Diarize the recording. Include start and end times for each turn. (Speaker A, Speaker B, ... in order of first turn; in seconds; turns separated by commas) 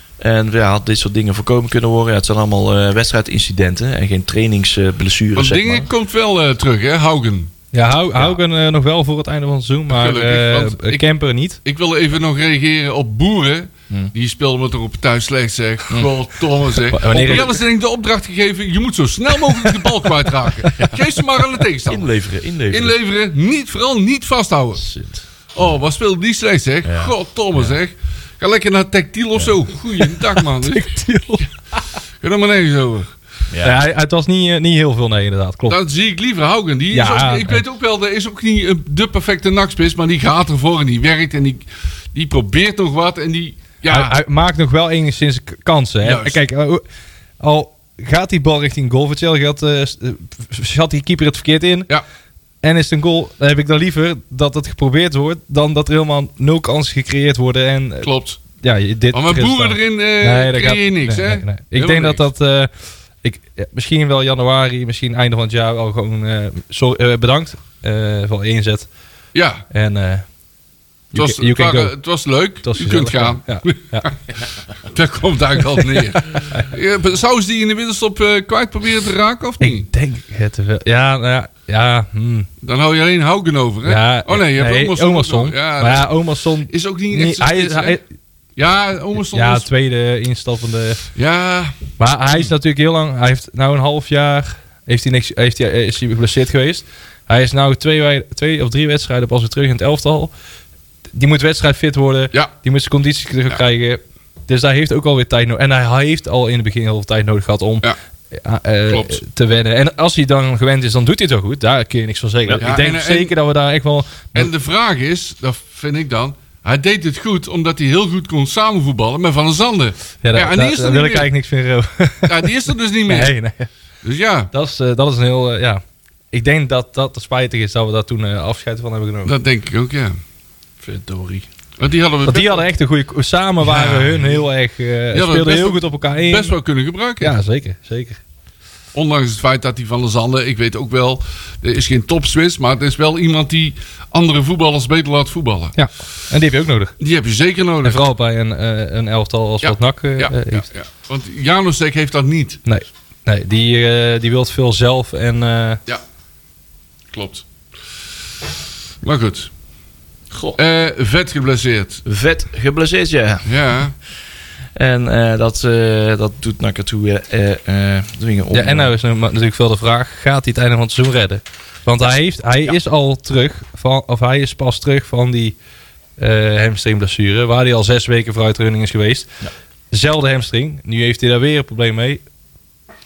Speaker A: 0.2-5.9, Speaker B: 5.4-7.5, Speaker C: 7.7-11.6, Speaker B: 9.9-11.1, Speaker B: 11.7-22.1, Speaker C: 16.9-17.5, Speaker A: 17.1-17.6, Speaker A: 21.9-23.0, Speaker B: 22.7-24.9, Speaker A: 24.8-25.2, Speaker B: 25.5-31.0, Speaker A: 26.9-27.8, Speaker C: 30.6-31.5, Speaker B: 32.2-33.1, Speaker A: 33.5-33.8, Speaker C: 33.6-35.8, Speaker B: 35.7-44.2, Speaker C: 36.9-37.6, Speaker C: 43.9-46.8, Speaker B: 46.0-46.4, Speaker C: 47.4-51.9, Speaker C: 52.6-58.1, Speaker B: 58.0-58.4, Speaker C: 58.6-62.7, Speaker B: 59.1-62.2, Speaker C: 63.2-68.9, Speaker B: 69.3-69.6, Speaker C: 69.7-70.2, Speaker C: 71.1-71.9, Speaker B: 71.1-74.1, Speaker C: 72.6-74.1, Speaker B: 74.9-79.9, Speaker C: 79.6-82.5, Speaker B: 82.6-86.1, Speaker C: 83.8-88.0, Speaker B: 86.7-88.0, Speaker B: 88.6-89.7, Speaker C: 89.2-91.0, Speaker B: 91.2-92.5, Speaker C: 92.0-100.3, Speaker C: 101.1-114.5, Speaker B: 108.9-109.2, Speaker B: 112.6-113.3, Speaker B: 114.3-121.3, Speaker C: 120.2-123.7, Speaker B: 122.3-123.3, Speaker B: 124.0-124.5, Speaker C: 124.5-129.3, Speaker B: 129.3-130.2, Speaker A: 130.8-131.5, Speaker B: 131.8-132.7, Speaker C: 132.2-136.6, Speaker B: 133.6-134.4, Speaker B: 135.1-137.3, Speaker C: 137.2-138.2, Speaker B: 138.9-145.8, Speaker C: 145.8-146.9, Speaker B: 147.0-148.0, Speaker C: 147.8-150.7, Speaker B: 149.6-152.6, Speaker C: 152.7-155.8, Speaker B: 157.1-157.4, Speaker B: 159.0-159.5, Speaker A: 160.3-160.6, Speaker B: 160.6-162.0, Speaker A: 162.1-163.5, Speaker B: 163.5-163.9, Speaker A: 164.8-168.9, Speaker C: 168.5-175.6, Speaker C: 176.2-179.3, Speaker C: 179.9-182.2